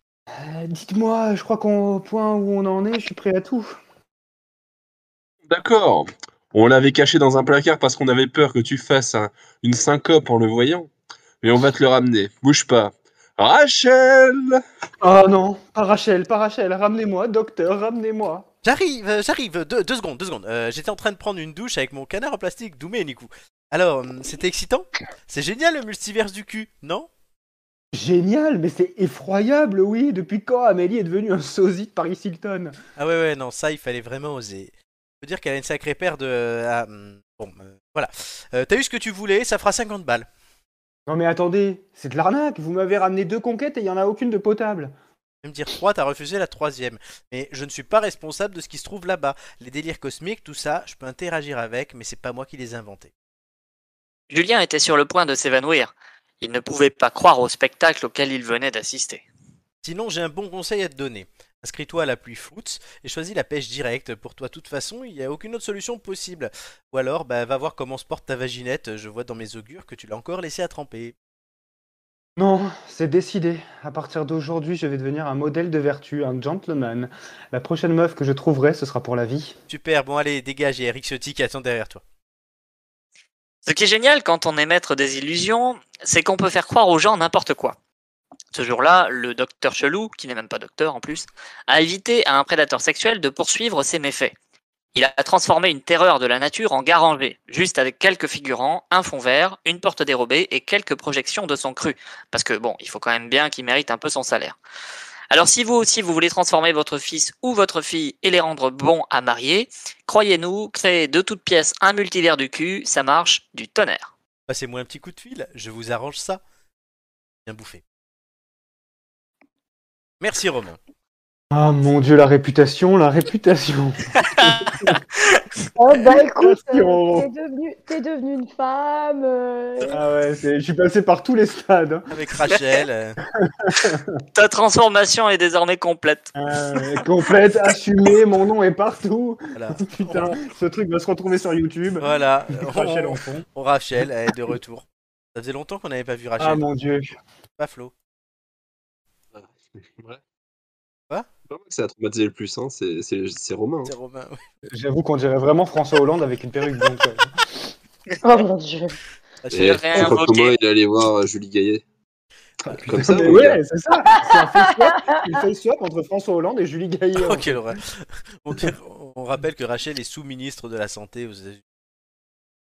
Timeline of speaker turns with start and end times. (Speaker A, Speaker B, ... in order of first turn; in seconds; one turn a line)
Speaker A: 0.3-3.8
Speaker B: 5.5-10.9
Speaker B: 11.4-14.6
Speaker A: 15.0-18.5
Speaker C: 18.6-27.1
Speaker A: 27.9-32.8
Speaker C: 33.0-40.3
Speaker A: 41.1-44.9
Speaker C: 45.4-53.1
Speaker D: 54.3-59.2
Speaker C: 59.8-71.1
Speaker A: 72.4-79.5
Speaker C: 79.7-82.0
Speaker D: 83.6-87.8
Speaker D: 88.5-94.3
Speaker D: 94.9-104.6
Speaker D: 105.3-114.1
Speaker C: 114.5-116.4
Speaker C: 117.5-117.8
Speaker C: 120.2-120.8
Speaker A: 121.5-124.6
Speaker D: 124.4-124.7
Speaker E: 125.8-130.0
Speaker A: 126.0-127.3
Speaker A: 129.9-132.1
Speaker C: 132.1-133.2
Speaker A: 133.4-134.2
Speaker D: 134.3-136.3
Speaker A: 136.3-143.5
Speaker C: 139.5-140.4
Speaker C: 142.0-146.7
Speaker A: 146.4-147.1
Speaker C: 147.6-147.9
Speaker B: 149.3-150.2
Speaker B: 151.5-153.9
Speaker C: 153.8-154.4
Speaker A: 154.7-157.4
Speaker E: 158.2-159.0
Speaker C: 159.4-160.2
Speaker B: 159.5-161.8
Speaker D: 159.6-160.6
Speaker B: 162.7-163.6
Speaker A: 162.8-167.7
Speaker E: 164.2-165.2
Speaker C: 167.1-171.6